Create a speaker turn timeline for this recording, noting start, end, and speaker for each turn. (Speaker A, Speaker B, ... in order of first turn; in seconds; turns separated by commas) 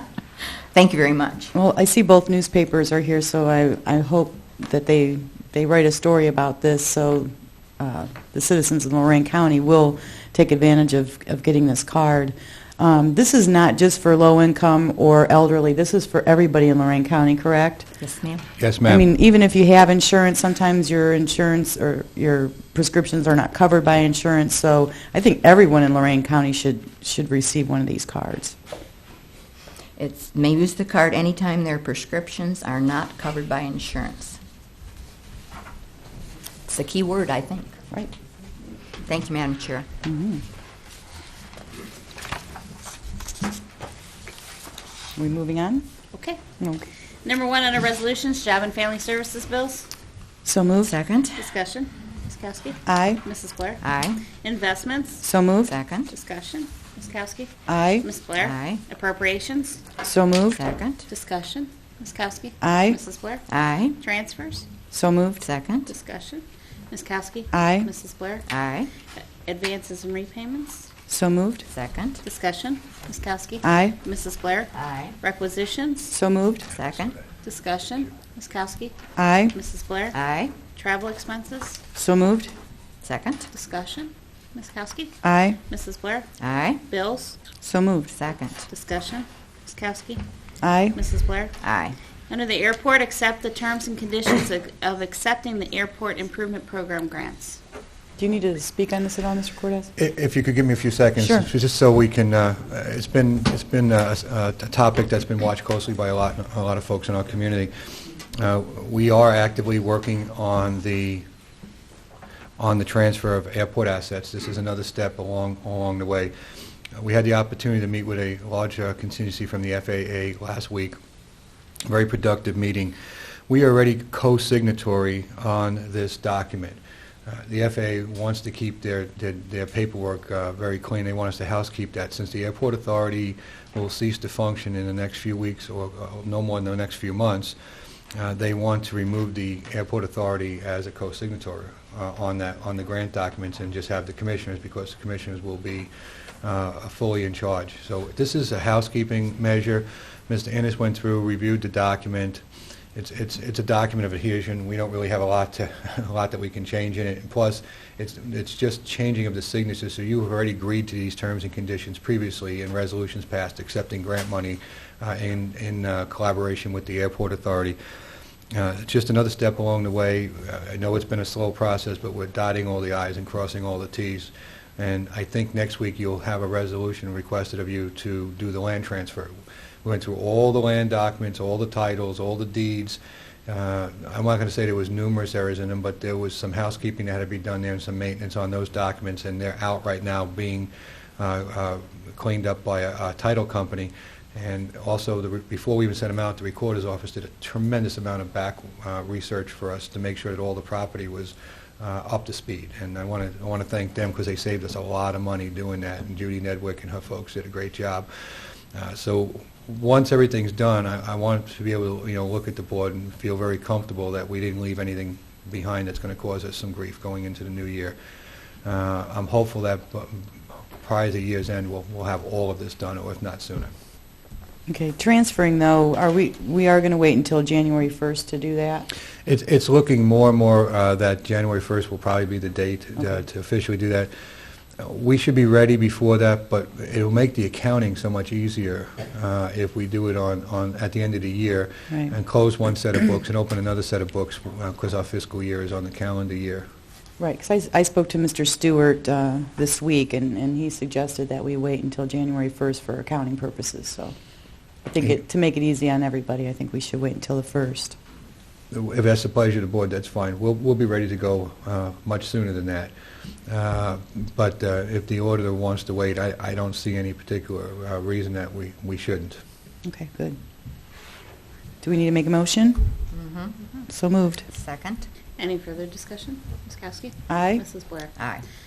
Speaker A: 0.7-1.5, Speaker B: 1.5-18.0, Speaker A: 18.0-18.5, Speaker C: 18.6-19.1, Speaker B: 18.9-28.5, Speaker A: 30.0-34.4, Speaker A: 36.7-37.7, Speaker A: 39.0-39.9, Speaker B: 40.0-40.4, Speaker B: 45.2-45.9, Speaker D: 46.1-46.4, Speaker B: 46.6-46.9, Speaker D: 47.2-49.9, Speaker B: 50.5-50.9, Speaker A: 50.8-51.5, Speaker D: 51.4-55.3, Speaker B: 52.9-53.2, Speaker A: 53.8-54.2, Speaker B: 55.2-55.7, Speaker A: 55.6-56.1, Speaker D: 56.1-59.8, Speaker B: 57.7-58.0, Speaker A: 58.4-58.8, Speaker B: 60.0-60.6, Speaker A: 60.5-61.0, Speaker D: 61.1-63.4, Speaker B: 62.6-63.0, Speaker A: 63.5-64.0, Speaker D: 64.0-64.7, Speaker B: 64.9-65.5, Speaker A: 65.4-65.9, Speaker D: 65.9-68.5, Speaker B: 67.5-67.9, Speaker A: 68.5-68.9, Speaker D: 69.4-70.9, Speaker B: 71.1-71.7, Speaker A: 71.7-72.2, Speaker D: 72.2-76.1, Speaker B: 73.6-74.0, Speaker A: 74.7-75.1, Speaker B: 76.1-76.7, Speaker A: 76.7-77.2, Speaker D: 77.4-79.0, Speaker B: 79.2-79.5, Speaker D: 79.5-80.1, Speaker A: 80.1-80.5, Speaker D: 80.7-81.8, Speaker B: 81.9-82.5, Speaker A: 83.0-83.5, Speaker D: 83.5-86.3, Speaker B: 85.2-85.6, Speaker A: 86.4-86.8, Speaker D: 86.8-87.4, Speaker B: 87.6-88.1, Speaker A: 88.1-88.7, Speaker D: 88.7-90.2, Speaker B: 90.6-91.0, Speaker D: 90.9-91.5, Speaker A: 91.6-92.0, Speaker D: 92.3-97.6, Speaker B: 98.2-99.9, Speaker C: 100.0-107.7, Speaker B: 101.2-101.5, Speaker C: 108.3-111.2, Speaker C: 112.6-116.3, Speaker C: 117.0-121.0, Speaker C: 121.9-123.0, Speaker C: 123.5-137.6, Speaker C: 138.1-145.9, Speaker C: 146.4-152.4, Speaker C: 152.9-167.8, Speaker C: 168.5-208.1, Speaker C: 208.7-218.0, Speaker C: 218.6-220.2, Speaker C: 220.8-223.7, Speaker B: 224.7-228.9, Speaker C: 229.2-234.1, Speaker C: 234.8-246.7, Speaker B: 247.2-254.1, Speaker B: 254.9-257.9, Speaker C: 258.7-262.9, Speaker C: 263.5-269.4, Speaker B: 269.8-270.4, Speaker B: 271.8-273.0, Speaker A: 273.1-273.6, Speaker B: 273.9-274.5, Speaker A: 274.5-275.1, Speaker D: 275.4-278.2, Speaker B: 277.3-277.6, Speaker A: 278.2-278.4